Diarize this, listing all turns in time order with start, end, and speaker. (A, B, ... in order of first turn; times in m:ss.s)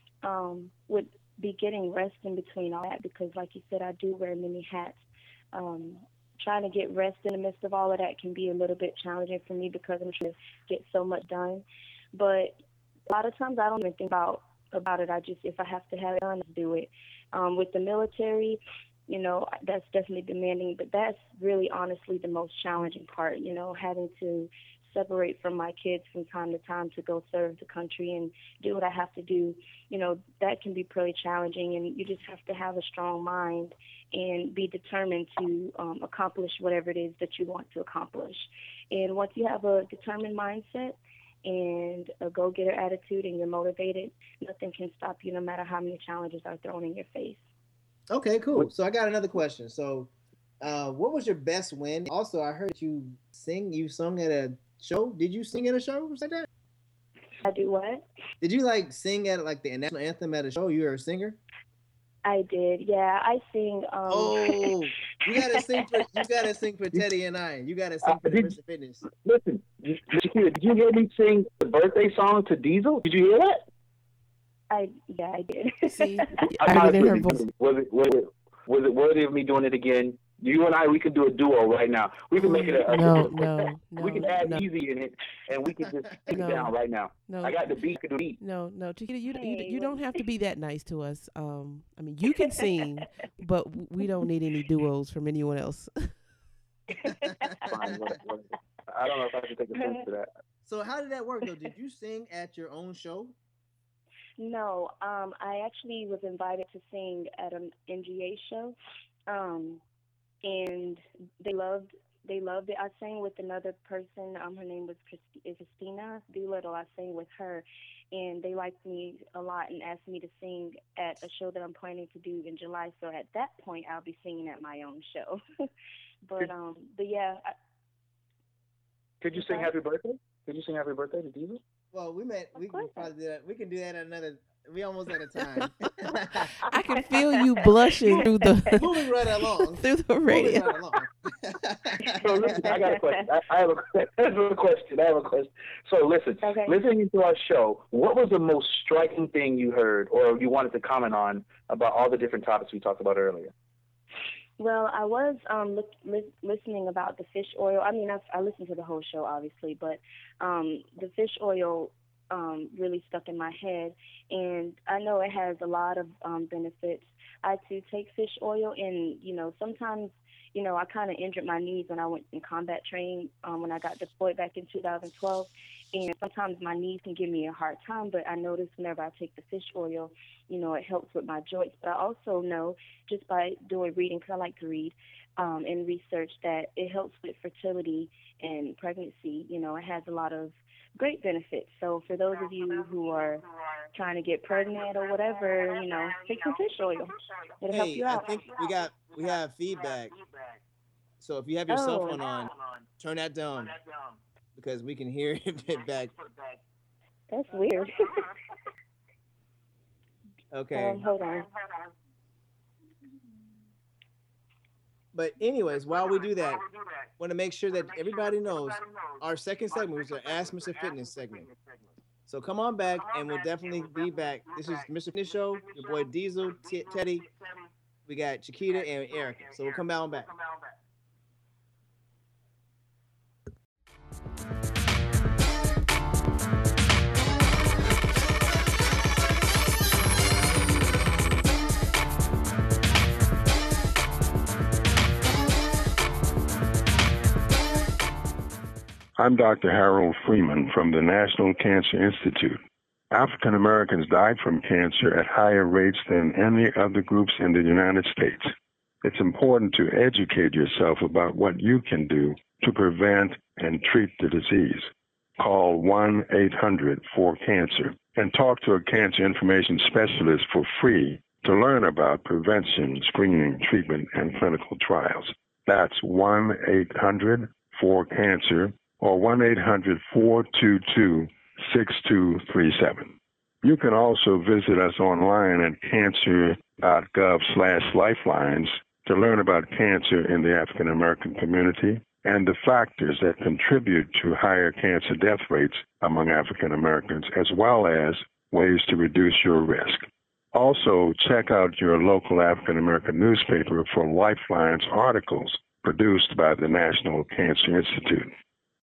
0:00.2-0:05.0 A
0:05.5-0:47.4 A
0:48.1-0:56.5 B
0:57.5-0:58.1 A
0:58.4-1:01.4 B
1:02.2-1:06.2 A
1:04.1-1:09.0 B
1:08.1-1:08.5 C
1:09.1-1:13.6 C
1:14.7-1:16.3 A
1:15.9-1:17.4 D
1:16.6-1:28.4 C
1:22.4-1:24.6 D
1:26.3-1:26.7 D
1:27.3-1:27.6 D
1:28.4-1:36.1 D
1:29.3-1:30.0 A
1:37.0-1:37.6 A
1:37.6-1:40.3 C
1:40.7-1:43.3 B
1:44.4-1:48.8 A
1:49.3-1:49.8 A
1:50.4-2:05.4 A
2:06.2-2:07.5 A
2:09.2-2:11.6 C
2:09.3-2:09.7 A
2:11.9-2:16.5 B
2:12.6-2:13.1 A
2:16.7-2:18.9 D
2:17.1-2:18.8 A
2:18.8-2:22.6 B
2:19.4-2:20.7 D
2:22.2-2:33.5 C
2:22.5-2:23.3 A
2:26.4-2:26.8 A
2:34.6-3:18.5 A
3:17.7-3:20.2 B
3:21.2-3:23.8 B
3:21.7-3:22.3 A
3:24.6-3:26.2 B
3:27.3-3:28.1 A
3:30.5-3:31.1 B
3:30.7-3:31.5 A
3:35.1-3:36.6 B
3:37.2-3:41.5 B
3:42.3-3:47.3 B
3:48.1-3:50.3 B
4:09.2-4:12.6 E
4:13.1-4:18.5 E
4:19.0-5:08.3 E